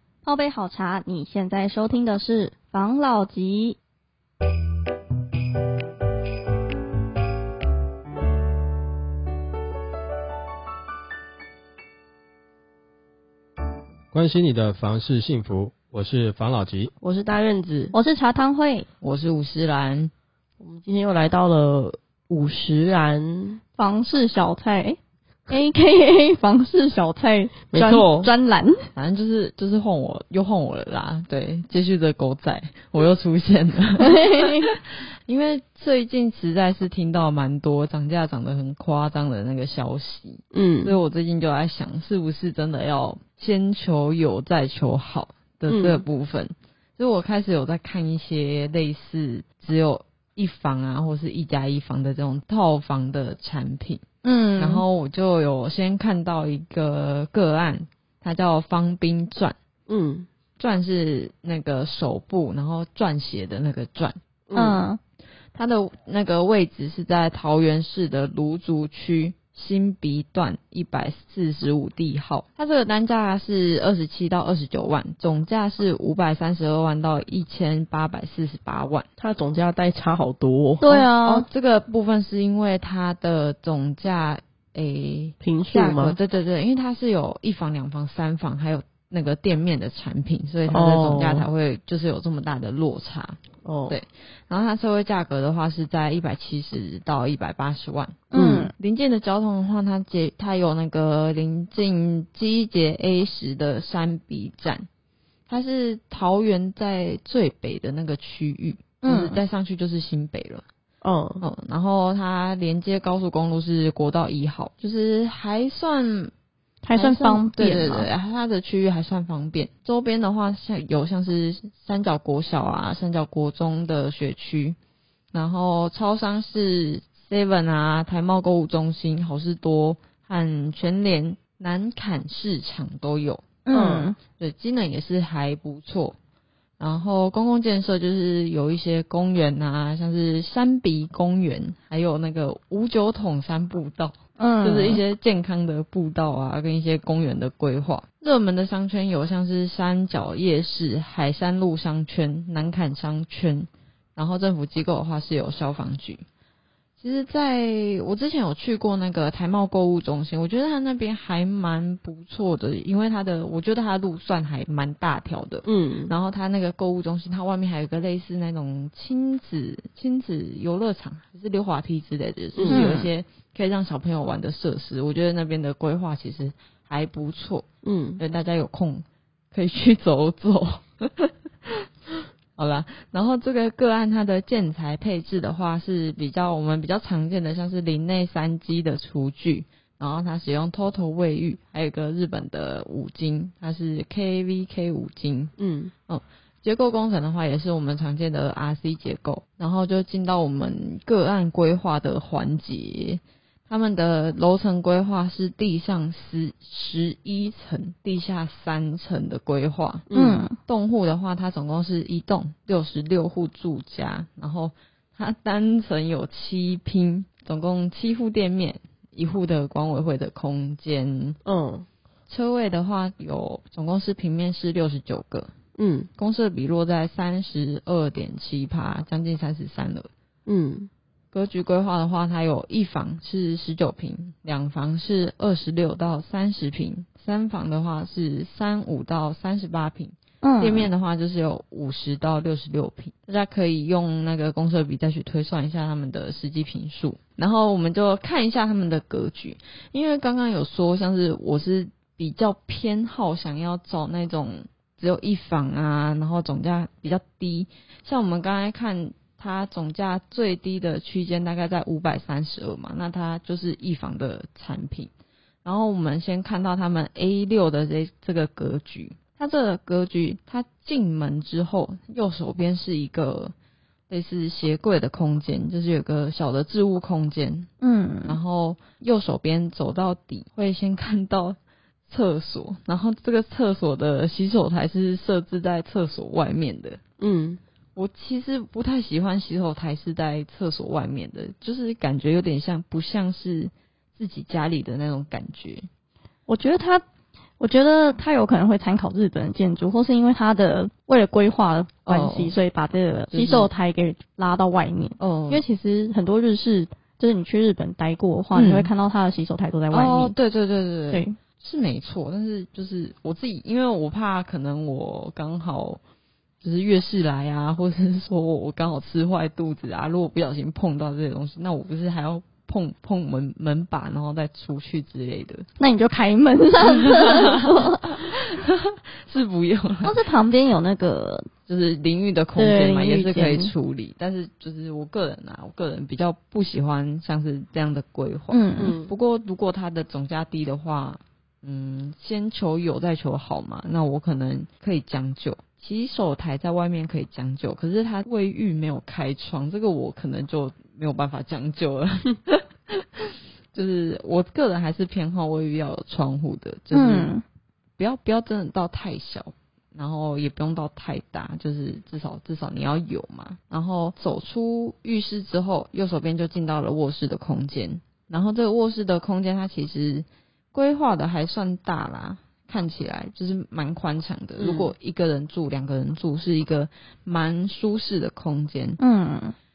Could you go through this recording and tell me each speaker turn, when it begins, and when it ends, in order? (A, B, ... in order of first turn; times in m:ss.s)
0:00.2-0:03.8 A
0:14.1-0:16.9 B
0:17.0-0:17.9 C
0:17.9-0:18.9 A
0:19.0-0:20.1 D
0:20.6-0:23.6 C
0:23.8-0:25.0 A
0:25.5-0:28.9 A
0:27.7-0:28.3 C
0:29.0-0:54.0 D
0:34.0-0:34.6 A
0:40.5-0:41.0 C
0:45.7-0:46.0 C
0:54.2-0:54.9 A
0:54.6-0:59.6 D
0:59.9-1:00.3 C
1:00.6-1:04.2 D
1:04.5-1:04.8 C
1:04.6-1:05.0 A
1:05.5-1:19.1 D
1:19.2-1:21.0 C
1:20.8-1:21.5 A
1:21.2-1:44.9 D
1:25.4-1:26.2 C
1:30.7-1:31.5 C
1:33.6-1:34.0 C
1:38.3-1:38.7 A
1:38.3-1:38.7 C
1:45.5-1:50.7 D
1:49.0-1:49.4 A
1:51.0-1:51.4 C
1:51.4-1:56.3 D
1:56.8-1:58.1 A
1:56.9-2:04.8 D
2:05.3-2:13.4 D
2:13.7-2:14.2 A
2:13.7-2:14.1 C
2:14.4-2:16.2 D
2:16.8-2:36.2 D
2:24.4-2:25.0 A
2:37.0-2:57.7 D
2:45.6-2:46.1 C
2:52.6-2:52.9 C
2:52.7-2:53.1 A
2:57.8-2:58.2 C
2:58.2-3:01.7 D
3:02.6-3:15.5 D
3:15.6-3:15.9 C
3:16.1-3:30.1 D
3:30.1-3:30.4 C
3:30.1-3:30.6 A
3:30.7-3:41.4 D
3:41.4-3:41.9 C
3:42.3-3:45.5 D
3:45.8-3:46.1 C
3:46.2-3:50.1 D
3:50.5-3:50.9 C
3:51.3-4:25.1 D
4:00.4-4:00.9 A
4:25.6-4:33.5 D
4:34.1-4:37.7 D
4:37.8-4:38.4 A
4:38.3-4:47.0 D
4:47.2-4:47.6 C
4:48.0-4:55.9 D
4:56.5-4:57.0 A
4:57.6-5:10.4 A
5:02.1-5:02.5 D
5:03.3-5:03.7 D
5:05.2-5:05.6 D
5:08.6-5:08.9 D
5:09.9-5:16.0 D
5:16.6-5:25.7 D
5:25.8-5:28.2 A
5:27.0-5:30.2 D
5:30.0-5:31.5 A
5:31.7-5:57.3 D
5:32.6-5:33.7 A
5:38.5-5:39.0 A
5:38.8-5:39.1 C
5:56.9-5:57.4 A
5:58.0-6:19.0 D
6:14.6-6:14.9 C
6:19.0-6:19.6 A